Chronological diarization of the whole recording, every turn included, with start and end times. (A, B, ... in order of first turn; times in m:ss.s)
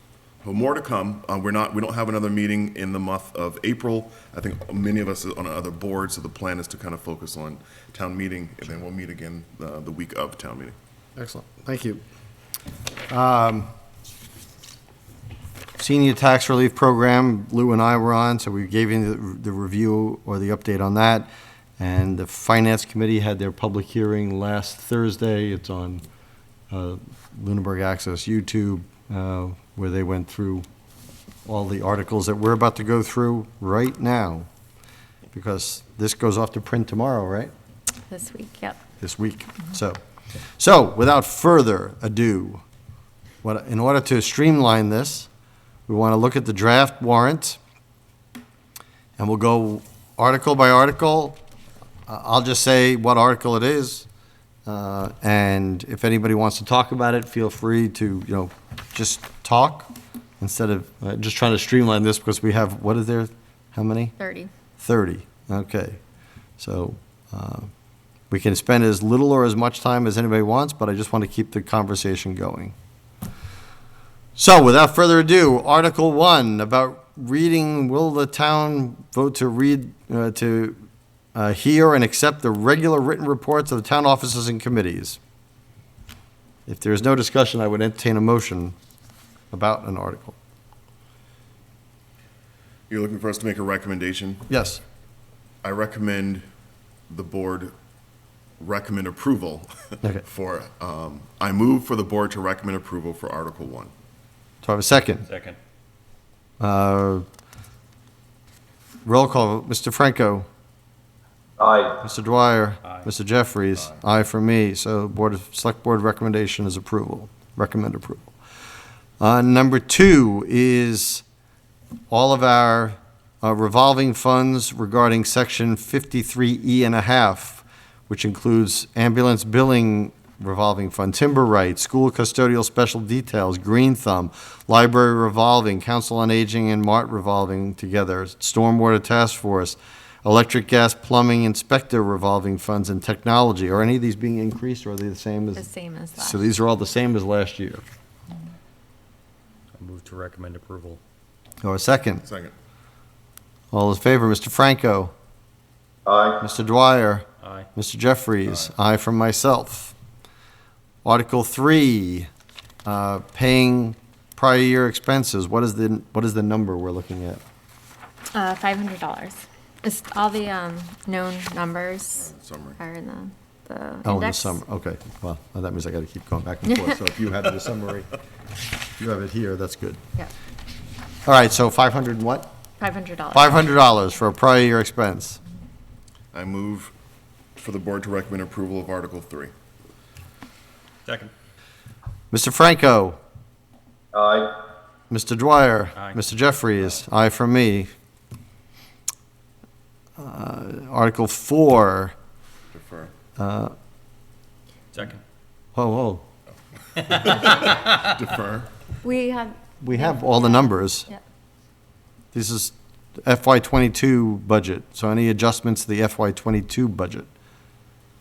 0:00.4-0:10.8 A
0:11.2-0:12.0 B
0:13.1-0:13.7 B
0:15.8-0:26.0 B
0:26.7-0:30.6 B
0:31.5-0:34.5 B
0:35.3-0:37.5 B
0:38.1-0:38.8 C
0:39.0-0:40.0 B
0:40.6-0:42.6 B
0:43.4-0:45.3 B
0:45.9-0:47.6 B
0:49.2-0:51.4 B
0:52.1-0:54.1 B
0:54.7-1:04.1 B
1:04.2-1:04.5 C
1:04.8-1:06.0 B
1:06.6-1:07.7 B
1:08.3-1:12.8 B
1:14.4-1:20.8 B
1:21.3-1:25.2 B
1:26.7-1:28.8 B
1:29.5-1:30.4 B
1:32.9-1:34.5 A
1:34.5-1:34.8 B
1:35.6-1:36.4 A
1:37.1-1:37.7 A
1:38.6-1:43.9 A
1:44.6-1:45.3 B
1:45.3-1:45.6 D
1:46.6-1:47.2 B
1:49.0-1:50.5 B
1:52.0-1:58.3 B
1:59.2-2:01.2 B
2:02.1-2:25.7 B
2:25.6-2:26.5 C
2:26.2-2:27.8 B
2:29.8-2:31.0 D
2:31.6-2:32.2 B
2:32.2-2:32.5 A
2:33.7-2:35.1 B
2:36.4-2:37.2 B
2:37.4-2:37.7 D
2:37.8-2:39.9 B
2:41.0-2:42.3 B
2:42.8-2:47.4 B
2:48.3-2:54.6 C
2:52.2-2:52.8 A
2:54.0-2:58.1 B
2:59.0-3:00.0 B
3:01.3-3:02.5 B
3:02.8-3:03.7 C
3:03.3-3:05.4 B
3:06.3-3:06.9 A
3:07.6-3:09.5 A
3:11.1-3:11.3 D
3:12.3-3:13.2 B
3:15.1-3:17.9 B
3:20.2-3:22.1 B
3:22.7-3:23.1 A
3:23.4-3:23.7 B
3:24.9-3:25.2 D
3:25.8-3:26.2 B
3:27.0-3:28.7 A
3:27.0-3:27.7 D
3:29.0-3:31.2 C
3:29.8-3:31.1 B
3:32.3-3:37.3 B